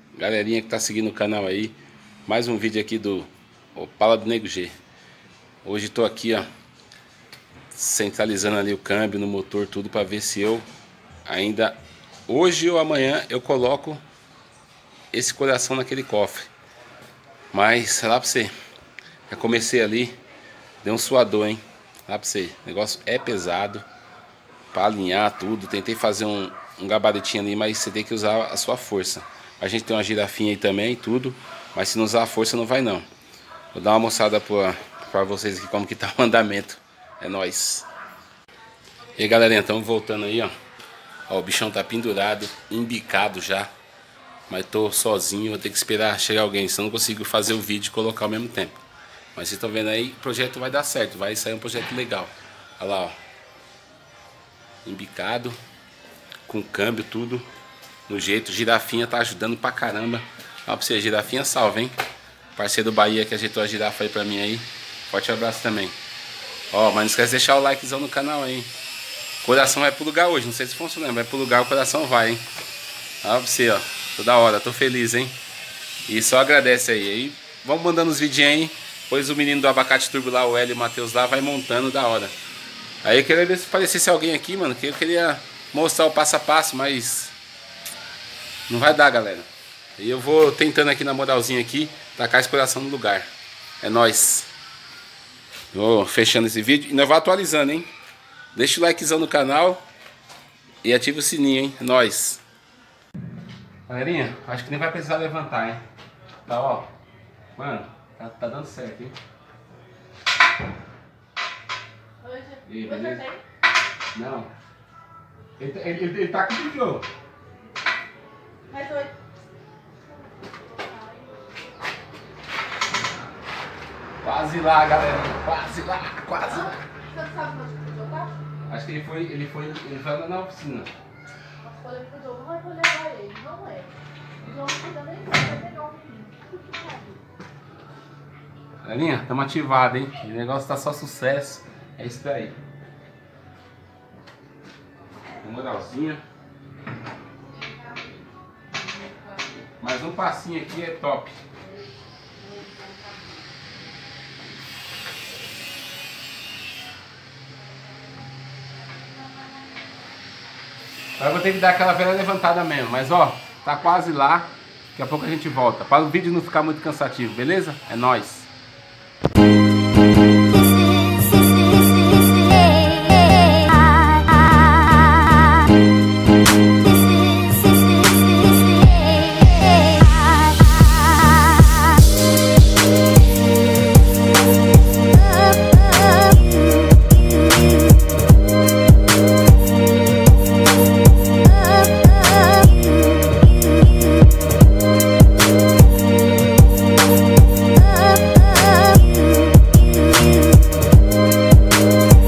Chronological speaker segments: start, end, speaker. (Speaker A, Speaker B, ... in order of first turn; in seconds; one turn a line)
Speaker A: 0.1-4.7
Speaker A: 5.6-6.5
Speaker A: 7.7-10.7
Speaker A: 11.2-14.0
Speaker A: 15.1-16.5
Speaker A: 17.5-18.5
Speaker A: 19.3-20.2
Speaker A: 20.8-23.9
Speaker A: 24.7-33.0
Speaker A: 33.7-37.9
Speaker A: 39.2-40.5
Speaker A: 41.3-43.7
Speaker A: 44.5-48.8
Speaker A: 49.3-53.1
Speaker A: 54.8-55.6
Speaker A: 56.5-57.5
Speaker A: 58.1-61.9
Speaker A: 62.5-66.0
Speaker A: 66.7-68.7
Speaker A: 69.4-72.4
Speaker A: 73.2-75.3
Speaker A: 76.1-82.3
Speaker A: 83.0-87.3
Speaker A: 88.7-93.3
Speaker A: 93.8-94.5
Speaker A: 95.7-97.9
Speaker A: 98.5-99.8
Speaker A: 100.8-102.4
Speaker A: 103.9-105.8
Speaker A: 106.4-106.9
Speaker A: 107.5-109.2
Speaker B: 112.2-113.4
Speaker A: 112.7-113.2
Speaker A: 114.1-114.5
Speaker A: 115.6-117.0
Speaker B: 118.7-119.1
Speaker B: 120.5-121.3
Speaker A: 124.2-126.8
Speaker B: 126.4-128.3
Speaker A: 128.7-130.9
Speaker B: 131.6-137.2
Speaker A: 138.8-142.6
Speaker A: 145.4-146.2
Speaker A: 149.8-151.4
Speaker A: 161.2-168.5